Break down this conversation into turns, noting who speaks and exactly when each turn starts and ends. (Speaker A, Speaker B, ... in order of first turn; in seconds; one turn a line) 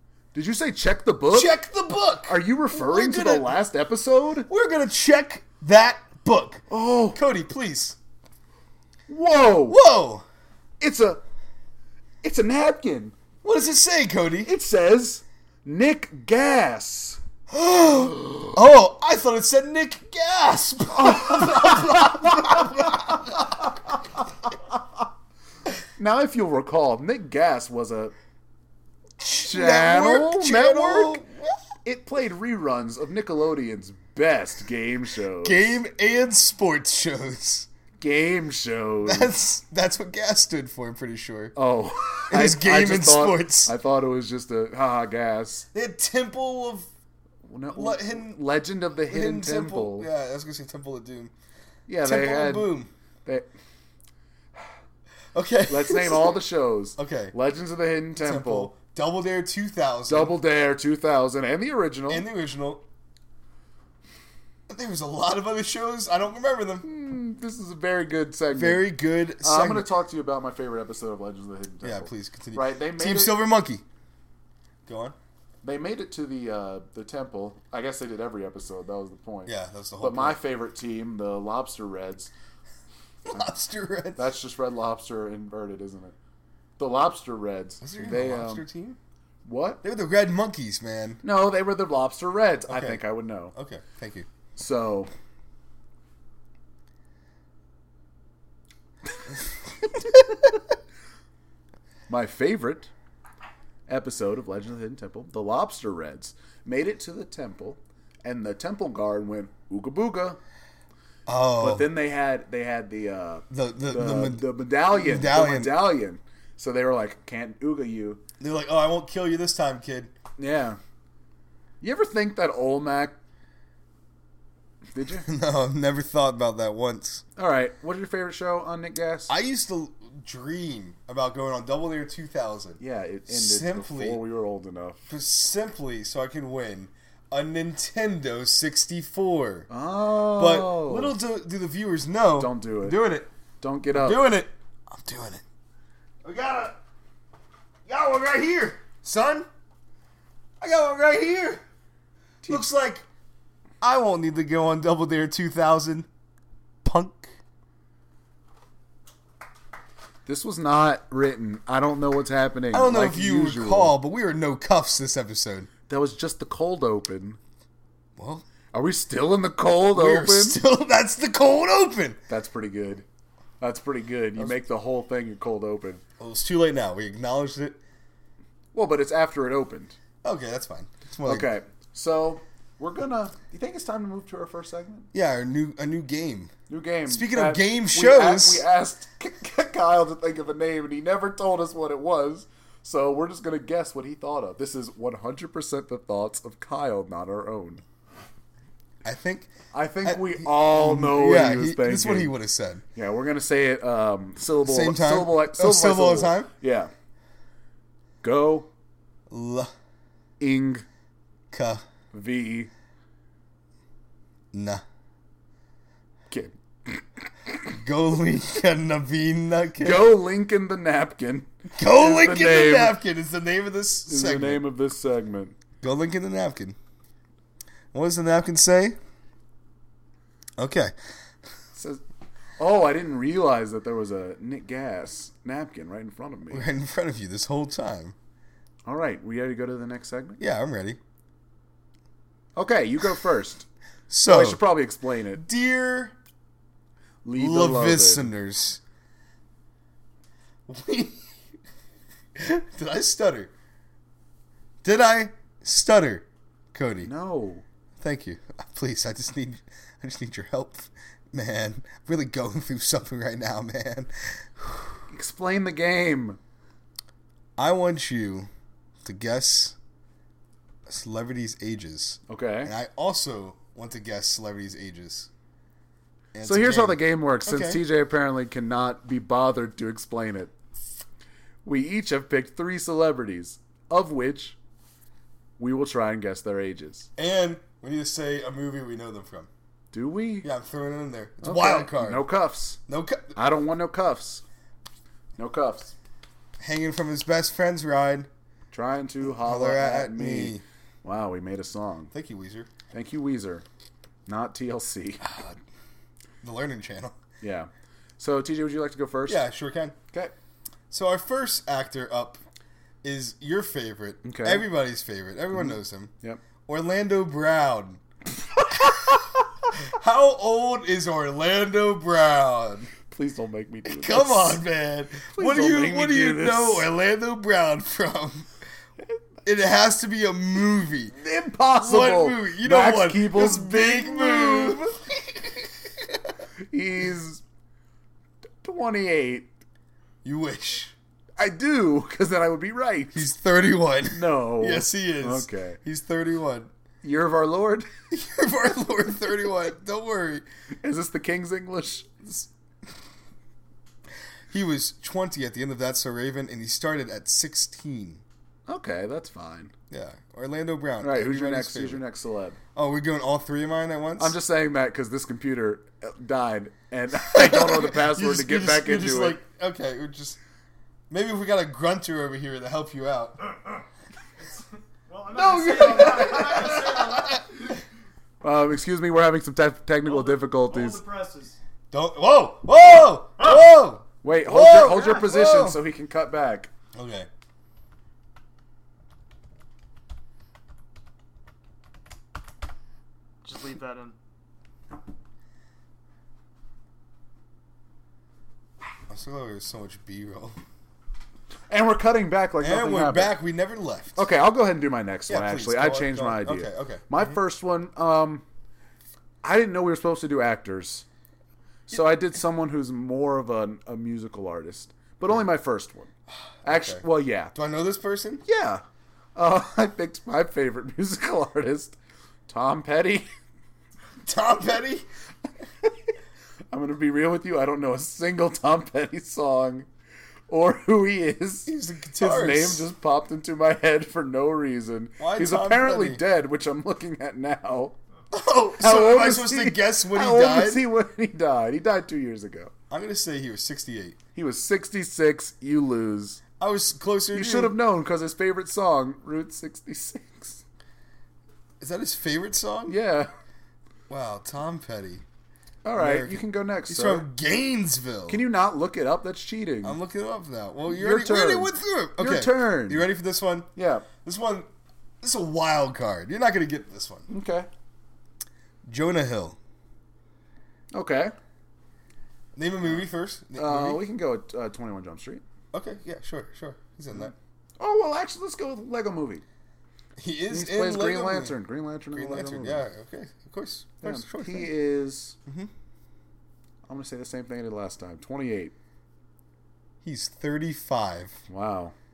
Speaker A: 0.3-1.5
Speaker B: 1.3-3.6
Speaker A: 2.3-4.5
Speaker B: 4.5-8.0
Speaker A: 6.7-7.2
Speaker A: 9.1-9.8
Speaker B: 9.7-10.2
Speaker A: 10.8-11.2
Speaker A: 12.2-13.1
Speaker B: 13.4-14.5
Speaker A: 14.4-17.2
Speaker B: 17.5-23.4
Speaker A: 18.2-18.5
Speaker A: 20.9-23.1
Speaker A: 24.4-24.8
Speaker A: 26.0-28.1
Speaker B: 29.2-31.6
Speaker A: 29.4-31.2
Speaker A: 31.8-35.7
Speaker B: 35.4-37.7
Speaker A: 38.0-39.3
Speaker B: 39.0-41.5
Speaker A: 41.5-45.6
Speaker B: 42.3-43.7
Speaker B: 45.7-46.9
Speaker A: 47.4-50.1
Speaker B: 47.7-48.4
Speaker B: 49.1-51.3
Speaker A: 51.9-52.7
Speaker B: 52.0-52.9
Speaker B: 55.3-56.4
Speaker A: 55.7-58.7
Speaker B: 57.0-57.3
Speaker B: 58.1-60.4
Speaker A: 60.1-62.3
Speaker B: 62.1-62.8
Speaker B: 64.7-66.8
Speaker A: 66.8-73.4
Speaker B: 68.5-69.9
Speaker B: 71.8-73.8
Speaker B: 74.9-75.2
Speaker A: 75.6-82.3
Speaker B: 79.5-80.4
Speaker B: 83.3-84.3
Speaker A: 84.2-86.1
Speaker A: 86.8-88.6
Speaker B: 87.8-89.0
Speaker A: 89.4-89.8
Speaker B: 89.8-91.2
Speaker A: 91.2-93.5
Speaker B: 92.7-93.0
Speaker B: 93.5-94.3
Speaker A: 94.5-95.1
Speaker A: 102.1-102.9
Speaker A: 103.9-110.4
Speaker B: 111.3-111.9
Speaker A: 111.6-118.2
Speaker B: 113.5-115.8
Speaker B: 118.4-120.1
Speaker A: 120.4-120.8
Speaker A: 121.8-123.2
Speaker A: 124.9-125.2
Speaker B: 125.2-127.2
Speaker A: 127.4-129.3
Speaker B: 129.3-134.2
Speaker A: 132.8-135.1
Speaker B: 135.1-139.7
Speaker A: 139.7-141.2
Speaker B: 140.2-143.3
Speaker A: 142.4-143.0
Speaker A: 143.6-144.2
Speaker B: 143.9-145.4
Speaker B: 146.2-146.8
Speaker B: 147.8-149.5
Speaker B: 150.6-151.6
Speaker B: 152.4-153.0
Speaker B: 153.8-156.1
Speaker B: 156.8-157.3
Speaker A: 160.2-163.9
Speaker B: 162.7-165.7
Speaker A: 165.9-167.4
Speaker B: 168.2-168.4
Speaker A: 168.7-170.6
Speaker B: 169.9-172.2
Speaker A: 172.3-173.0
Speaker A: 173.6-176.0
Speaker B: 176.2-177.8
Speaker A: 178.7-179.9
Speaker B: 180.2-181.5
Speaker A: 181.2-185.1
Speaker B: 185.1-186.5
Speaker A: 186.7-197.8
Speaker B: 187.1-188.6
Speaker B: 199.0-199.5
Speaker A: 199.7-202.3
Speaker B: 200.0-202.8
Speaker A: 202.9-206.9
Speaker B: 204.6-206.5
Speaker A: 208.2-208.7
Speaker B: 209.3-209.7
Speaker A: 210.4-210.8
Speaker B: 211.5-211.8
Speaker A: 212.1-212.7
Speaker B: 214.5-214.8
Speaker A: 216.3-217.8
Speaker B: 217.8-220.1
Speaker A: 219.8-223.0
Speaker B: 221.8-224.6
Speaker A: 224.1-225.6
Speaker B: 225.8-226.8
Speaker B: 227.9-229.0
Speaker B: 230.6-230.9
Speaker A: 231.7-232.0
Speaker A: 232.6-236.7
Speaker B: 236.5-238.1
Speaker A: 238.8-240.4
Speaker B: 240.4-241.0
Speaker A: 242.6-243.7
Speaker B: 244.1-244.6
Speaker A: 244.2-245.4
Speaker B: 245.4-246.1
Speaker A: 247.2-248.3
Speaker B: 247.3-248.8
Speaker B: 250.7-251.3
Speaker B: 252.3-253.5
Speaker B: 254.8-257.1
Speaker A: 257.0-257.6
Speaker B: 258.0-265.0
Speaker A: 265.1-266.4
Speaker B: 267.6-268.5
Speaker B: 269.0-269.8
Speaker B: 270.9-275.3
Speaker A: 272.3-272.7
Speaker B: 276.3-277.8
Speaker A: 276.4-280.5
Speaker A: 281.6-284.6
Speaker A: 285.6-287.1
Speaker B: 287.2-289.5
Speaker A: 289.9-290.5
Speaker B: 290.4-292.3
Speaker A: 291.4-292.8
Speaker B: 292.9-293.4
Speaker A: 293.3-294.4
Speaker A: 295.4-295.9
Speaker B: 296.6-298.3
Speaker A: 298.7-302.1
Speaker B: 299.4-300.6
Speaker B: 302.1-302.7
Speaker A: 302.9-303.6
Speaker A: 304.2-305.3
Speaker B: 305.2-305.6
Speaker B: 306.4-307.2
Speaker A: 307.4-309.5
Speaker B: 309.3-309.9
Speaker B: 310.9-312.4
Speaker B: 313.0-316.1
Speaker A: 314.2-314.6
Speaker A: 315.6-316.4
Speaker B: 316.6-318.0
Speaker B: 319.8-322.9
Speaker A: 323.1-324.6
Speaker B: 323.9-328.5
Speaker A: 325.3-326.9
Speaker B: 329.4-331.1
Speaker A: 331.1-334.9
Speaker B: 331.8-336.2
Speaker A: 336.7-337.4
Speaker A: 338.6-339.5
Speaker B: 340.2-340.9
Speaker A: 341.4-343.3
Speaker B: 343.1-346.7
Speaker A: 344.1-345.8
Speaker A: 347.0-347.9
Speaker B: 348.1-350.4
Speaker A: 350.8-352.2
Speaker B: 354.5-358.2
Speaker A: 358.7-359.7
Speaker B: 359.9-362.0
Speaker A: 361.0-362.6
Speaker B: 362.7-364.3
Speaker A: 364.2-369.4
Speaker B: 367.2-370.4
Speaker B: 371.1-373.6
Speaker C: 374.4-377.4
Speaker B: 375.3-377.5
Speaker A: 378.4-381.0
Speaker C: 380.0-381.6
Speaker B: 381.9-385.8
Speaker A: 384.2-386.7
Speaker B: 386.9-387.3
Speaker C: 393.4-394.1
Speaker B: 399.1-400.6
Speaker A: 401.7-403.4
Speaker B: 402.6-404.2
Speaker A: 404.1-408.4
Speaker B: 405.3-407.2
Speaker A: 409.4-411.0
Speaker A: 411.9-416.1
Speaker B: 416.6-418.4
Speaker A: 416.6-417.5
Speaker A: 418.4-418.8
Speaker A: 419.4-421.9
Speaker A: 422.5-423.3
Speaker B: 424.2-425.1
Speaker A: 426.7-429.9
Speaker A: 430.5-438.0
Speaker B: 431.7-432.9
Speaker B: 435.2-436.2
Speaker B: 438.3-440.9
Speaker A: 438.8-442.7
Speaker B: 442.9-444.2
Speaker A: 444.4-446.4
Speaker B: 446.6-447.8
Speaker A: 447.3-450.6
Speaker B: 451.8-453.0
Speaker A: 452.9-453.3
Speaker B: 454.1-455.2
Speaker A: 455.8-457.3
Speaker B: 456.0-458.4
Speaker A: 458.3-460.0
Speaker B: 459.8-464.7
Speaker A: 460.9-463.1
Speaker A: 463.8-464.1
Speaker B: 465.2-467.3
Speaker A: 467.3-467.7
Speaker B: 468.9-469.6
Speaker A: 470.9-471.3
Speaker B: 472.6-474.0
Speaker A: 473.6-475.4
Speaker B: 475.7-477.3
Speaker A: 477.1-479.4
Speaker B: 480.2-481.5
Speaker A: 480.5-482.9
Speaker B: 482.1-484.7
Speaker A: 484.0-485.4
Speaker B: 485.4-485.7
Speaker A: 486.9-488.7
Speaker B: 490.0-491.4
Speaker A: 491.5-491.9